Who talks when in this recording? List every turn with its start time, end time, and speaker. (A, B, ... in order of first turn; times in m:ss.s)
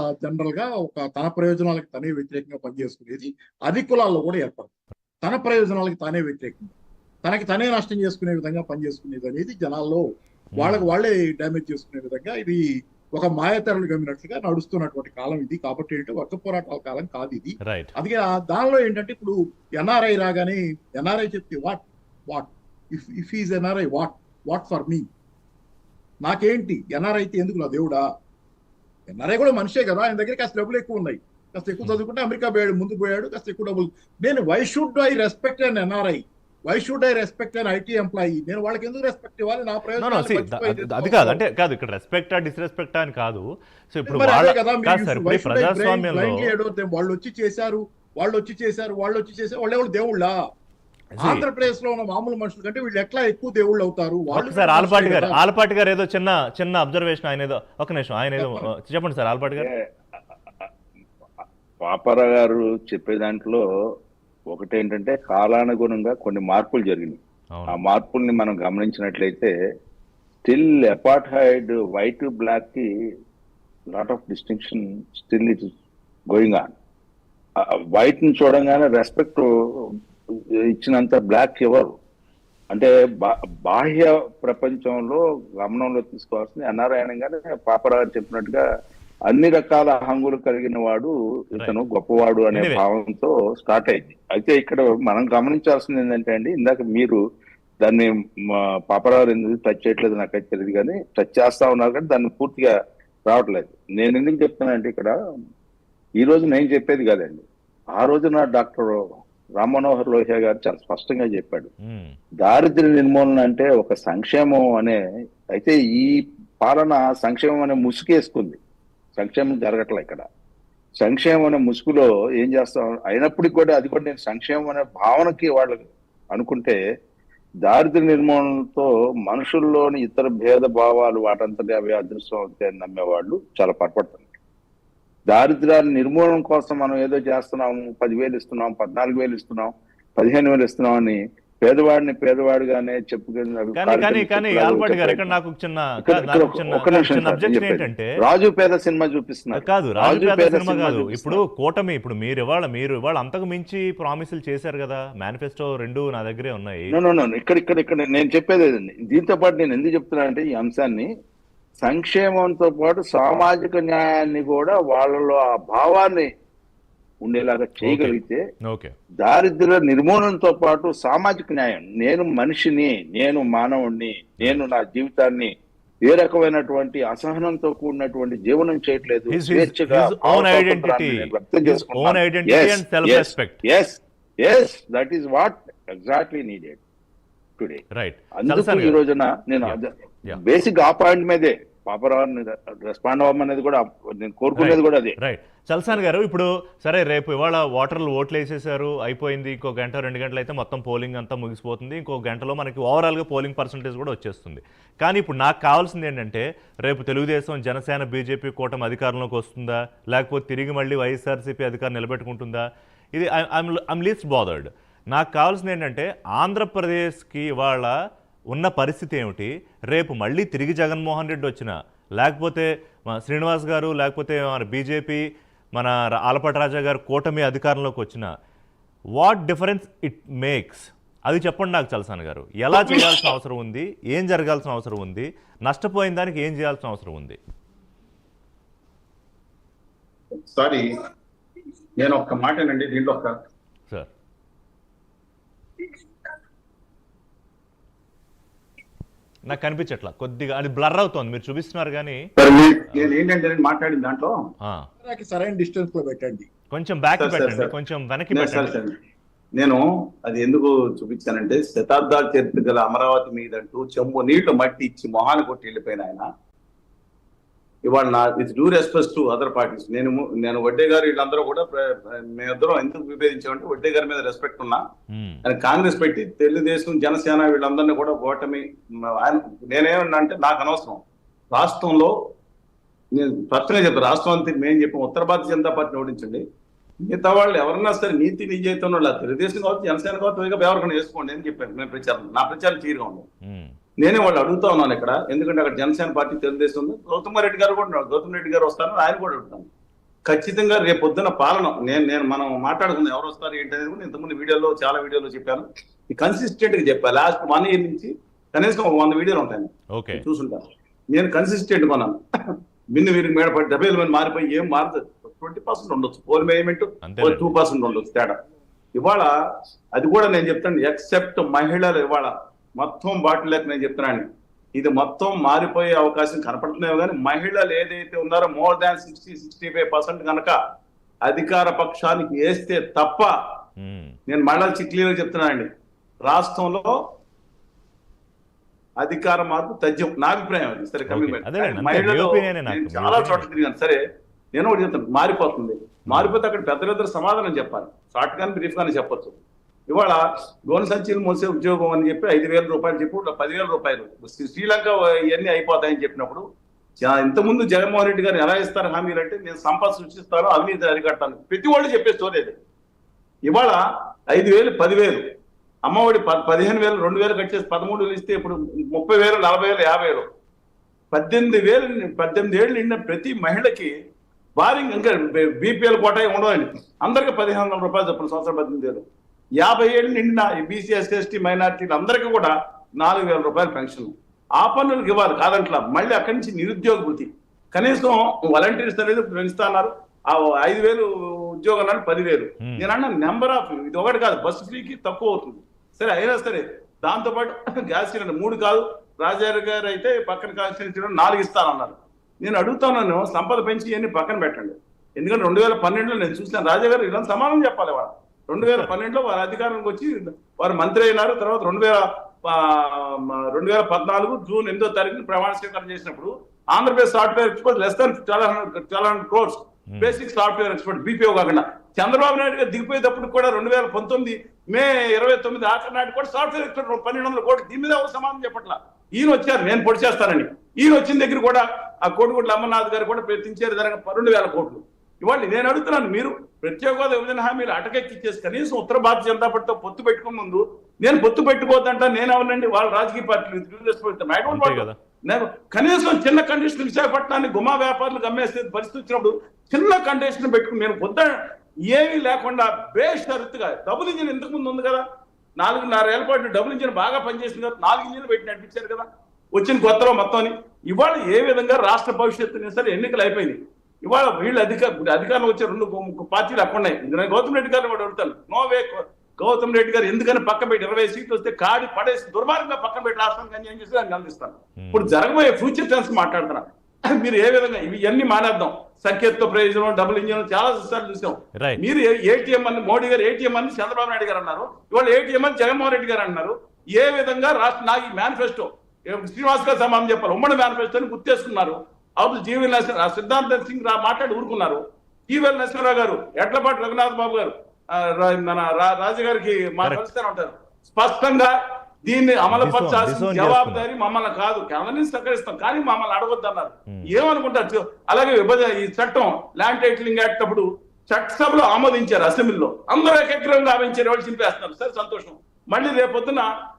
0:00.2-0:04.7 A
0:05.2-0:06.7 A
0:07.2-0:10.0 A
0:10.6-0:10.8 B
0:10.6-0:12.6 A
0:13.2-0:25.0 A
0:17.6-0:17.9 B
0:26.2-0:28.0 A
0:29.1-0:41.4 A
0:40.0-0:46.5 B
0:44.0-0:50.4 A
0:51.1-0:51.5 B
0:51.2-0:55.4 A
0:54.3-0:59.7 B
0:58.4-0:58.7 A
1:01.8-1:03.6 C
1:04.5-1:09.5 C
1:10.4-1:12.9 C
1:13.9-1:15.7 C
1:16.3-1:16.7 C
1:17.6-1:19.9 C
1:20.7-1:21.9 C
1:22.7-1:28.6 C
1:29.3-1:37.2 C
1:31.5-1:31.8 B
1:32.5-1:32.8 B
1:37.8-1:42.7 C
1:43.3-1:45.1 C
1:46.2-1:51.7 C
1:51.8-1:52.2 B
1:52.4-1:55.0 C
1:55.5-1:58.6 C
1:59.2-2:00.2 C
2:01.0-2:06.8 C
2:07.6-2:14.3 C
2:15.3-2:25.3 C
2:23.8-2:28.1 B
2:26.0-2:31.4 C
2:29.5-2:36.9 B
2:36.9-2:41.1 C
2:41.8-2:46.3 C
2:47.2-2:48.4 C
2:47.8-2:48.9 B
2:49.2-2:55.5 C
2:56.0-3:06.8 C
2:59.3-3:03.6 B
3:07.6-3:07.8 C
3:07.9-3:09.0 B
3:08.4-3:15.2 C
3:09.6-3:10.4 B
3:14.5-3:32.6 B
3:33.1-3:37.9 B
3:38.5-3:45.2 B
3:45.8-3:48.3 B
3:49.2-3:57.4 B
4:00.4-4:00.9 D
4:02.0-4:03.3 D
4:09.4-4:12.2 B
4:12.4-4:14.3 D
4:15.0-4:16.5 A
4:16.7-4:18.7 B
4:17.2-4:17.7 D
4:18.3-4:18.9 D
4:19.6-4:26.3 D
4:27.9-4:34.8 D
4:35.1-4:35.4 B
4:35.4-4:42.1 D
4:43.1-4:46.4 D
4:47.1-4:53.2 D
4:53.4-4:53.7 B
4:54.0-4:59.7 D
5:00.3-5:12.2 D
5:09.9-5:10.2 B
5:12.9-5:18.4 D
5:17.0-5:17.5 B
5:18.9-5:19.3 D
5:20.0-5:30.6 D
5:31.2-5:33.3 D
5:33.8-5:34.2 B
5:34.3-5:35.7 D
5:36.2-5:36.9 D
5:39.0-5:44.0 D
5:41.1-5:43.5 B
5:44.5-5:56.4 D
5:46.1-5:46.4 B
5:57.0-6:02.5 D
6:03.5-6:03.8 D
6:04.3-6:05.2 D
6:05.8-6:10.2 D
6:11.1-6:13.9 D
6:14.6-6:19.0 D
6:19.6-7:31.3 D
6:32.6-6:32.9 B
6:48.6-6:48.9 B
6:59.9-7:00.2 B
7:24.5-7:25.0 B
7:31.9-7:35.0 D
7:35.6-8:21.5 D
7:54.8-7:55.1 B
8:01.6-8:01.8 B
8:22.1-8:36.5 D
8:22.5-8:23.9 B
8:26.9-8:27.2 B